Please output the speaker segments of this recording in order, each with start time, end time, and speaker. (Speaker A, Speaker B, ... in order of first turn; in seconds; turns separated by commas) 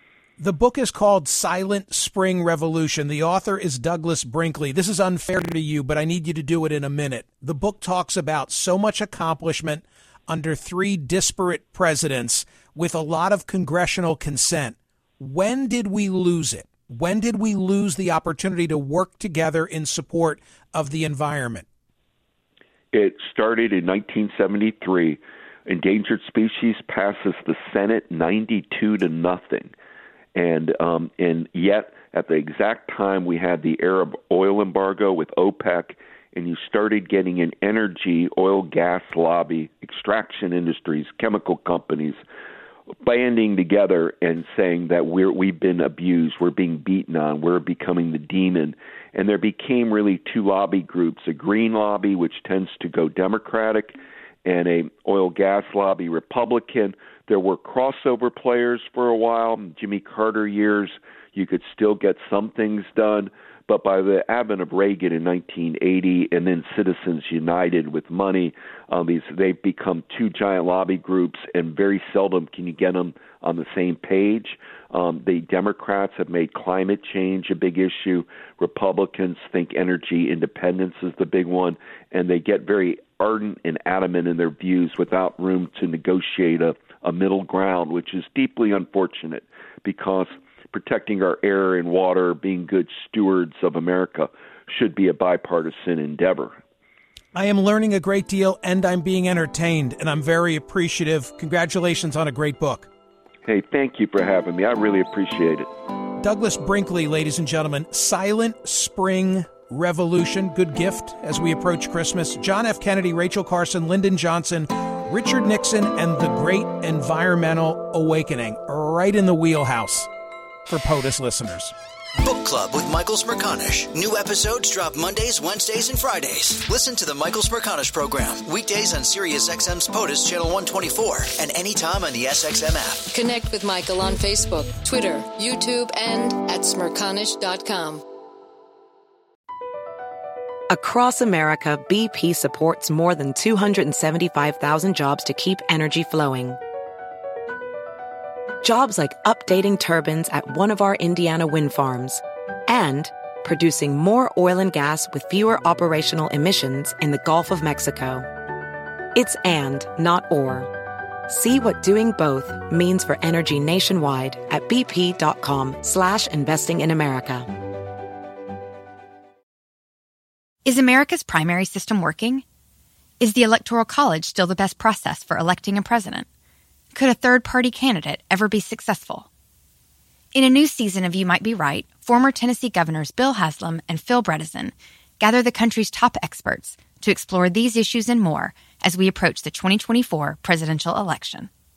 Speaker A: 0.4-21.6, Speaker B: 22.9-29.7, Speaker B: 30.3-42.2, Speaker B: 43.0-96.6, Speaker A: 97.3-102.9, Speaker B: 103.4-105.7, Speaker A: 106.2-120.1, Speaker A: 120.7-121.7, Speaker C: 122.2-133.1, Speaker D: 133.1-138.0, Speaker E: 140.7-146.6, Speaker E: 148.6-158.3, Speaker E: 159.1-160.7, Speaker E: 161.3-167.5, Speaker F: 170.7-172.4, Speaker F: 173.2-176.2, Speaker F: 176.9-179.3, Speaker F: 180.3-191.5